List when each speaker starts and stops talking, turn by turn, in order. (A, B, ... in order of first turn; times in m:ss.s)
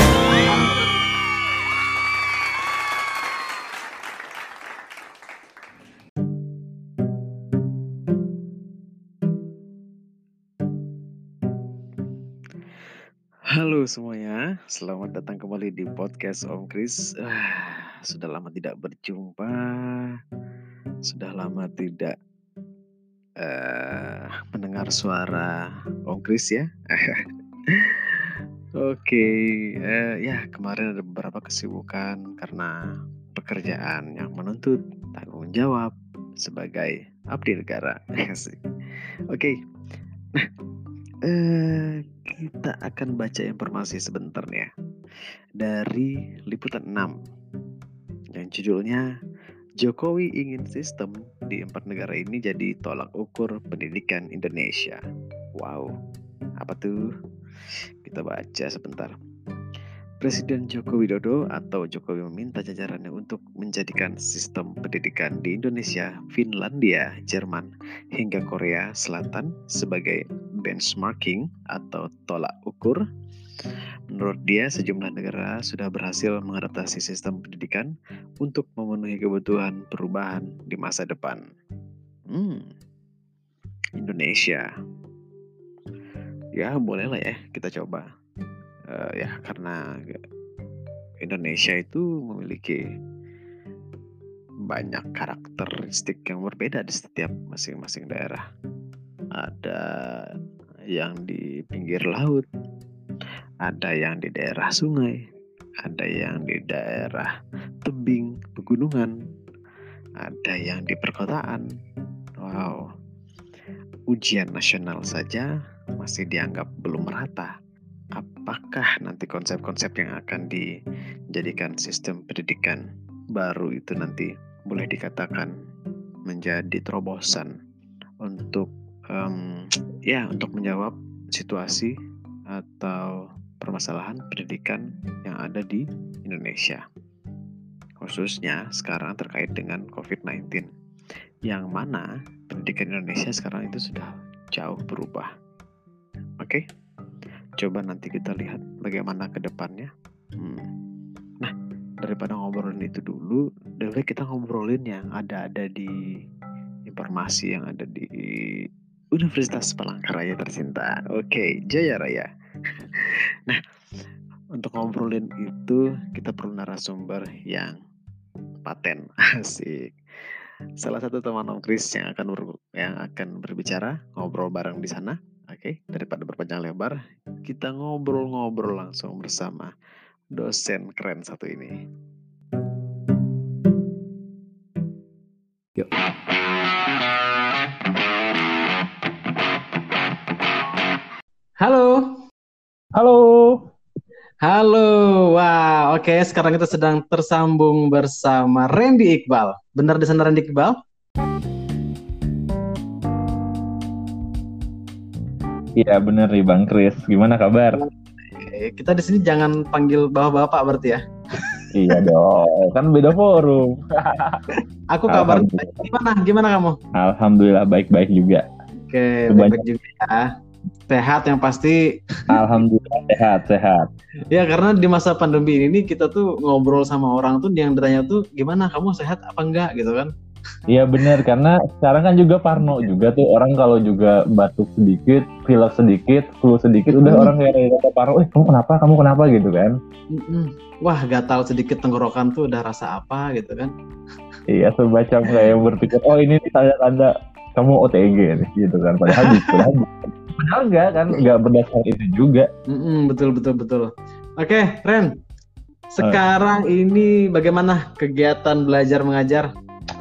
0:13.5-0:20.1 A
0:21.0-0:22.1 A
0:23.4-0:25.6 A
0:26.1-0:32.7 A
0:33.4-0:38.6 A
0:41.2-0:44.7 A
0:45.6-0:47.1 A
0:48.3-0:49.0 A
0:49.8-0:55.0 A
0:55.6-0:55.9 A
0:56.6-0:57.0 A
0:58.0-0:59.1 A
1:00.2-1:13.0 A
1:14.1-1:17.9 A
1:18.4-1:21.4 A
1:22.3-1:22.7 A
1:24.0-1:24.6 A
1:26.6-1:28.0 A
1:28.9-1:30.2 A
1:31.2-1:32.8 A
1:34.7-1:38.4 A
1:39.4-1:40.2 A
1:40.9-1:42.4 A
1:43.6-1:45.2 A
1:45.8-1:47.3 A
1:47.8-1:49.1 A
1:50.2-1:51.6 A
1:52.4-1:52.8 A
1:54.1-1:57.5 A
1:58.2-2:00.6 A
2:01.3-2:02.8 A
2:03.4-2:05.5 A
2:06.3-2:07.5 A
2:08.2-2:11.9 A
2:12.5-2:16.8 A
2:18.0-2:20.7 A
2:21.5-2:25.3 A
2:27.6-2:30.7 A
2:31.4-2:35.9 A
2:36.9-2:42.3 A
2:43.0-2:43.6 A
2:44.6-2:47.7 A
2:48.6-2:49.9 A
2:50.8-2:59.7 A
3:00.4-3:01.7 A
3:11.6-3:12.2 B
3:12.9-3:13.7 C
3:14.4-3:20.8 B
3:25.8-3:27.8 C
3:27.8-3:32.0 B
3:31.7-3:34.4 C
3:34.9-3:36.8 B
3:35.1-3:35.8 C
3:37.0-3:38.4 C
3:38.8-3:40.3 B
3:39.3-3:39.6 C
3:40.9-3:42.4 B
3:42.3-3:43.9 C
3:44.3-3:50.1 B
3:50.7-3:59.8 C
3:56.9-3:57.3 B
4:00.1-4:03.7 B
4:04.5-4:12.5 C
4:09.1-4:09.6 B
4:12.7-4:15.1 B
4:15.9-4:19.5 B